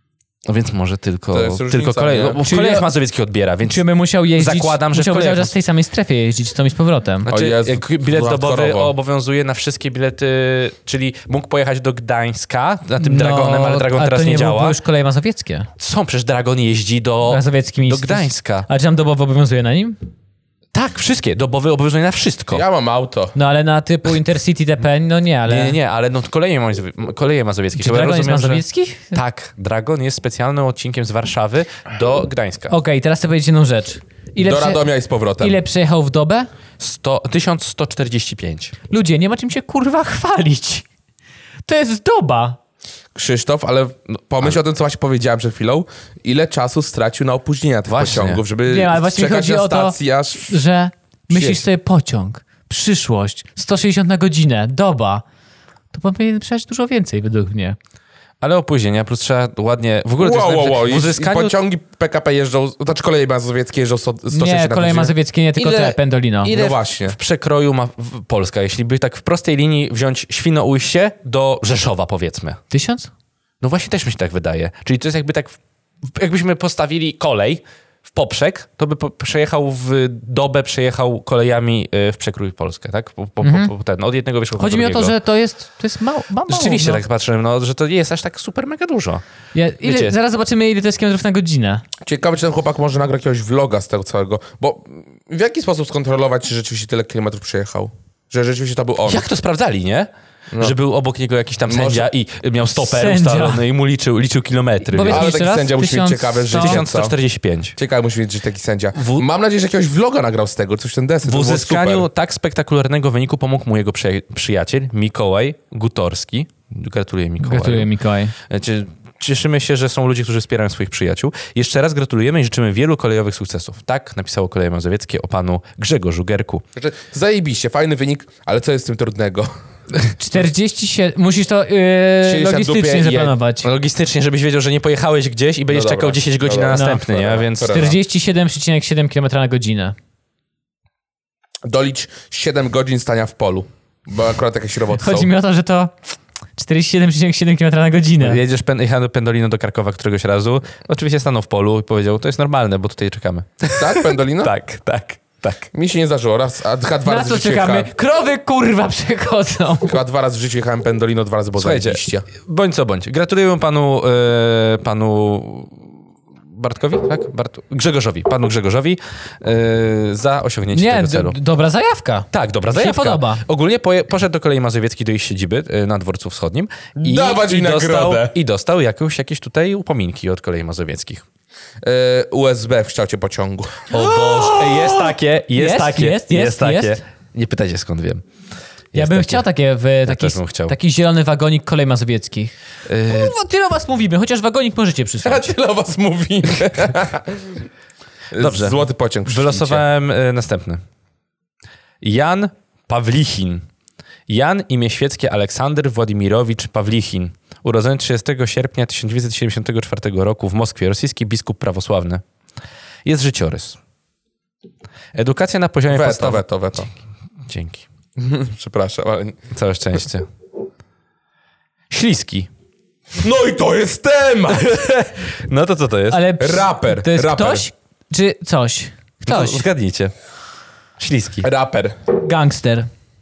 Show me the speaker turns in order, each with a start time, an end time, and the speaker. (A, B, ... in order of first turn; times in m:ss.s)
0:00.5-0:03.8 A
0:01.3-0:02.4 B
0:02.4-0:02.9 C
0:03.7-0:07.3 C
0:04.4-0:05.5 A
0:07.2-0:14.8 A
0:07.3-0:08.9 B
0:13.0-0:15.7 C
0:15.8-0:18.7 A
0:17.3-0:20.0 C
0:20.7-0:22.6 A
0:22.5-0:23.4 B
0:23.4-0:25.8 C
0:25.5-0:32.8 A
0:27.8-0:29.2 C
0:32.7-0:34.9 C
0:34.4-0:35.6 B
0:35.4-0:36.5 C
0:36.8-0:38.7 A
0:38.9-0:40.8 C
0:41.7-0:42.6 C
0:43.2-0:50.6 B
0:47.9-0:48.4 A
0:48.7-0:50.0 C
0:50.5-0:55.2 C
0:51.3-0:51.6 B
0:55.9-0:57.8 C
0:58.4-1:01.6 A
1:00.2-1:05.1 B
1:04.3-1:06.6 C
1:05.6-1:05.9 A
1:06.4-1:07.2 B
1:06.4-1:12.6 A
1:12.7-1:13.1 C
1:13.6-1:15.6 A
1:16.1-1:25.2 A
1:23.4-1:23.7 C
1:24.6-1:27.0 C
1:26.5-1:29.2 A
1:29.5-1:31.8 C
1:29.8-1:30.2 A
1:32.0-1:39.2 B
1:39.1-1:45.3 A
1:41.7-1:42.1 B
1:42.8-1:43.6 C
1:44.9-1:46.8 C
1:45.1-1:47.2 B
1:46.5-1:47.8 A
1:47.8-1:52.1 B
1:49.0-1:49.3 A
1:51.2-1:57.9 A
1:57.4-1:58.3 C
1:58.4-2:06.6 A
2:06.8-2:09.5 B
2:10.2-2:13.7 C
2:12.2-2:13.3 B
2:13.6-2:17.9 A
2:15.7-2:18.0 B
2:16.7-2:17.0 C
2:17.6-2:20.0 C
2:21.7-2:25.3 B
2:25.0-2:25.9 C
2:26.6-2:28.4 C
2:28.2-2:35.7 A
2:33.8-2:34.5 B
2:35.7-2:37.9 B
2:37.1-2:40.0 C
2:39.9-2:42.3 B
2:41.6-2:45.9 A
2:46.5-2:51.4 A
2:50.7-2:53.4 C
2:52.3-3:01.2 A
2:57.0-2:58.4 B
3:01.8-3:03.9 B
3:03.9-3:08.2 A
3:03.9-3:07.0 C
3:08.9-3:09.4 A
3:08.9-3:12.5 C
3:10.1-3:10.8 A
3:12.9-3:13.4 A
3:13.1-3:15.5 C
3:15.2-3:17.6 B
3:18.3-3:19.8 B
3:18.4-3:20.8 A
3:22.0-3:23.7 A
3:24.3-3:32.2 A
3:33.0-3:33.8 A
3:35.2-3:36.4 A
3:35.9-3:36.9 B
3:37.5-3:37.9 A
3:38.2-3:39.4 B
3:39.5-3:40.3 A
3:41.9-3:42.5 A
3:43.2-3:44.8 B
3:44.5-3:46.2 A
3:46.1-3:49.6 C
3:46.4-3:47.7 B
3:49.2-3:50.1 A
3:51.0-3:51.5 A
3:51.4-3:52.0 B
3:52.2-3:52.9 C